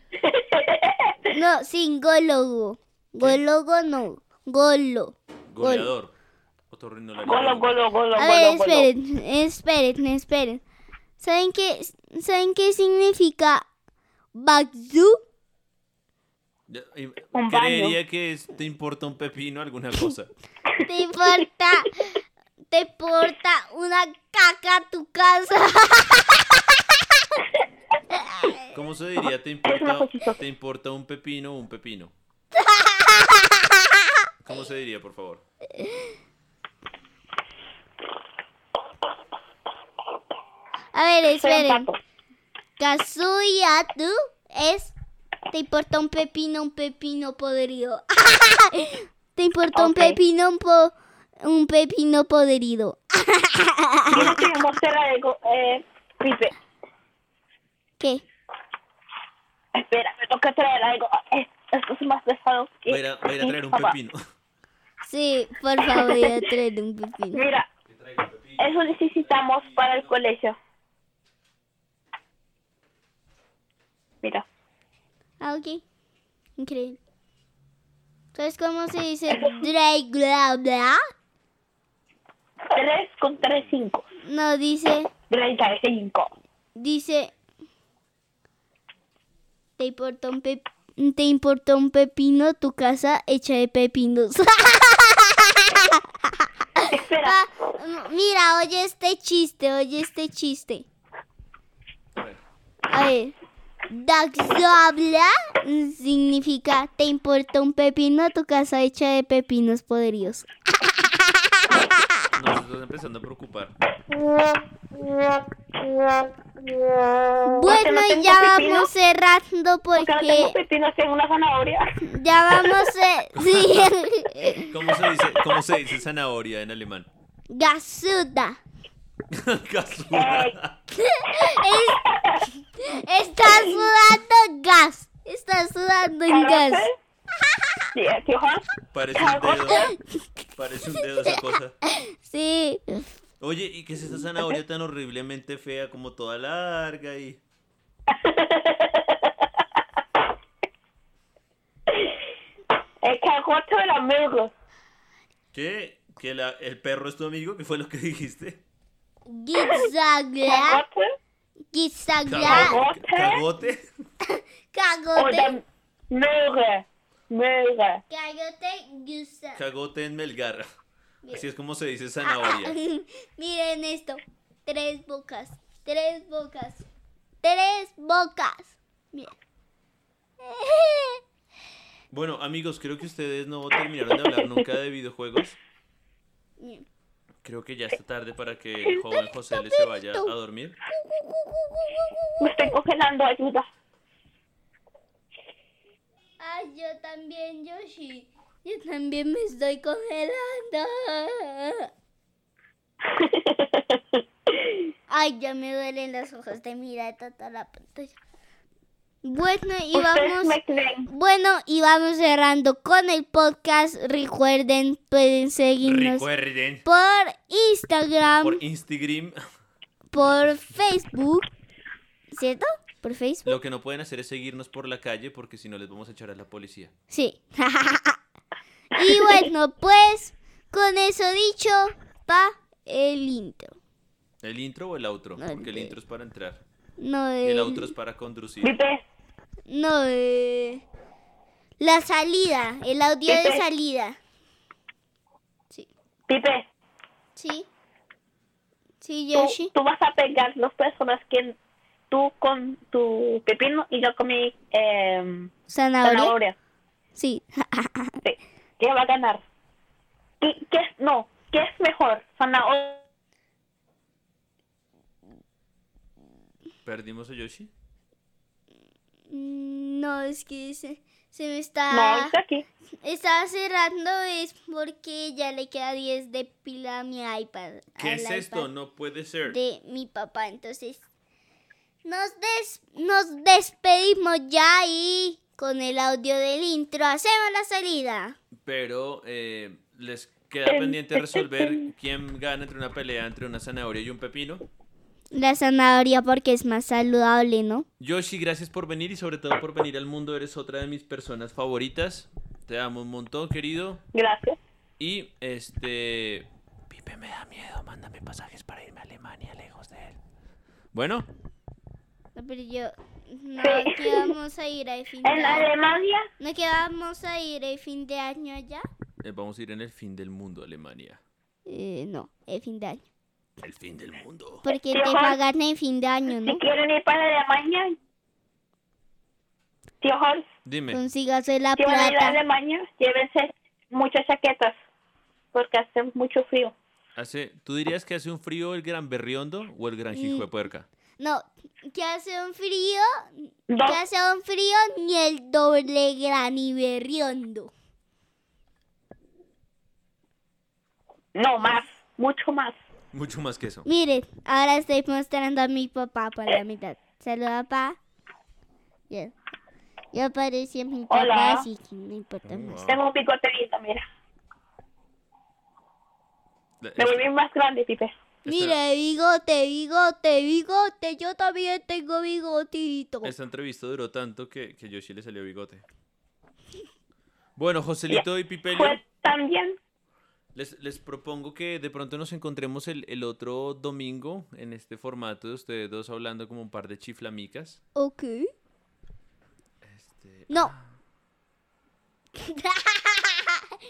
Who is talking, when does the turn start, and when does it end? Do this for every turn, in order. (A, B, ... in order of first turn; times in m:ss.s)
0:00.2-0:01.3 A
0:01.3-0:05.9 B
0:05.5-0:06.1 C
0:06.7-0:07.7 C
0:07.2-0:08.9 A
0:08.2-0:10.6 B
0:11.2-0:13.7 B
0:14.3-0:15.2 B
0:16.7-0:20.3 C
0:17.4-0:18.0 A
0:20.8-0:22.2 B
0:22.7-0:26.6 B
0:28.1-0:28.6 B
0:28.7-0:32.1 C
0:29.7-0:30.4 A
0:32.6-0:34.0 B
0:34.4-0:35.4 C
0:35.8-0:36.1 B
0:40.9-0:41.9 B
0:41.3-0:42.0 A
0:42.8-0:44.9 B
0:45.5-0:54.4 B
0:49.8-0:50.2 A
0:54.1-0:56.5 A
0:58.0-0:58.2 B
0:59.8-1:03.9 A
1:02.9-1:04.2 C
1:05.0-1:07.4 B
1:05.9-1:06.3 A
1:07.3-1:07.7 A
1:07.9-1:10.1 C
1:08.6-1:10.6 A
1:15.4-1:15.8 B
1:16.6-1:17.0 B
1:18.4-1:21.0 B
1:22.7-1:24.0 A
1:24.2-1:25.1 B
1:25.3-1:26.4 A
1:26.8-1:27.3 B
1:29.8-1:40.9 B
1:36.9-1:37.4 A
1:42.2-1:42.4 C
1:42.9-1:43.4 B
1:43.9-1:51.9 B
1:52.4-1:53.8 C
1:57.4-2:00.6 B
1:57.6-1:58.9 A
2:00.0-2:02.0 A
2:02.0-2:04.7 B
2:03.4-2:03.9 C
2:04.7-2:07.1 C
2:07.5-2:08.6 B
2:09.3-2:10.8 C
2:10.1-2:10.6 A
2:10.9-2:12.0 B
2:12.0-2:12.4 A
2:12.6-2:16.9 B
2:16.3-2:17.0 A
2:18.0-2:18.6 A
2:18.9-2:19.9 C
2:19.2-2:19.9 A
2:20.6-2:21.8 C
2:21.9-2:23.1 B
2:23.4-2:27.4 C
2:28.1-2:29.3 A
2:33.0-2:34.5 A
2:35.5-2:38.6 C
2:39.3-2:40.8 B
2:40.4-2:41.1 A
2:41.7-2:42.8 B
2:42.3-2:43.9 C
2:42.4-2:43.4 A
2:44.3-2:45.6 B
2:45.2-2:48.0 A
2:48.1-2:49.6 B
2:49.6-2:50.7 C
2:51.3-2:52.8 C
2:52.2-2:56.8 B
2:57.4-2:59.3 B
3:00.4-3:01.2 B
3:02.1-3:05.6 C
3:06.6-3:06.8 B
3:07.4-3:10.8 C
3:09.1-3:10.3 B
3:10.9-3:12.8 B
3:12.4-3:13.7 A
3:16.4-3:21.9 B
3:23.0-3:24.9 A
3:25.1-3:28.2 B
3:29.2-3:36.3 B
3:29.9-3:31.1 A
3:35.8-3:36.8 C
3:36.8-3:38.6 B
3:38.4-3:39.4 C
3:40.1-3:41.5 B
3:42.3-3:43.5 B
3:43.4-3:46.9 C
3:47.1-3:48.2 B
3:48.9-3:53.8 B
3:54.4-3:56.6 C
3:55.4-3:55.9 B
3:57.0-3:57.9 B
3:57.4-3:58.8 C
3:58.6-3:59.0 A
3:59.7-4:00.8 B
4:01.8-4:04.2 B
4:03.3-4:03.6 A
4:06.3-4:06.7 A
4:07.4-4:07.7 B
4:09.0-4:09.7 B
4:09.4-4:11.6 A
4:12.1-4:15.5 A
4:15.7-4:16.3 B
4:16.0-4:16.6 A
4:17.2-4:18.2 B
4:18.2-4:19.4 A
4:20.4-4:23.0 A
4:26.8-4:27.7 C
4:29.3-4:32.4 B
4:31.9-4:32.6 A
4:33.0-4:38.7 B
4:38.0-4:39.6 C
4:39.5-4:41.0 B
4:42.0-4:48.4 B
4:48.6-4:54.6 C
4:50.7-4:51.9 A
4:55.3-4:57.9 B
4:58.0-5:04.0 C
5:04.1-5:04.6 A
5:05.0-5:10.2 C
5:10.9-5:11.3 C
5:12.4-5:15.7 B
5:13.6-5:14.3 A
5:15.2-5:16.3 A
5:16.4-5:18.9 B
5:19.2-5:21.2 C
5:21.7-5:23.0 B
5:23.6-5:24.7 C
5:24.6-5:26.6 B
5:24.9-5:25.4 A
5:26.4-5:28.0 A
5:30.0-5:30.5 A
5:30.6-5:31.0 C
5:30.9-5:32.4 B
5:31.8-5:34.8 A
5:35.5-5:36.7 A
5:37.2-5:40.9 C
5:40.1-5:40.5 B
5:41.2-5:47.7 B
5:43.7-5:44.0 A
5:51.4-5:52.8 A
5:53.1-5:53.9 C
5:53.8-5:58.0 B
6:00.1-6:02.9 B
6:01.1-6:01.7 A
6:02.5-6:03.0 C
6:02.9-6:04.0 A
6:06.8-6:07.2 C
6:07.0-6:08.2 A
6:08.4-6:08.8 C
6:08.5-6:13.3 B
6:13.2-6:15.8 C
6:17.6-6:19.0 C
6:18.1-6:19.8 A
6:20.6-6:27.8 C
6:28.0-6:28.5 B
6:29.8-6:30.9 C
6:32.4-6:33.6 B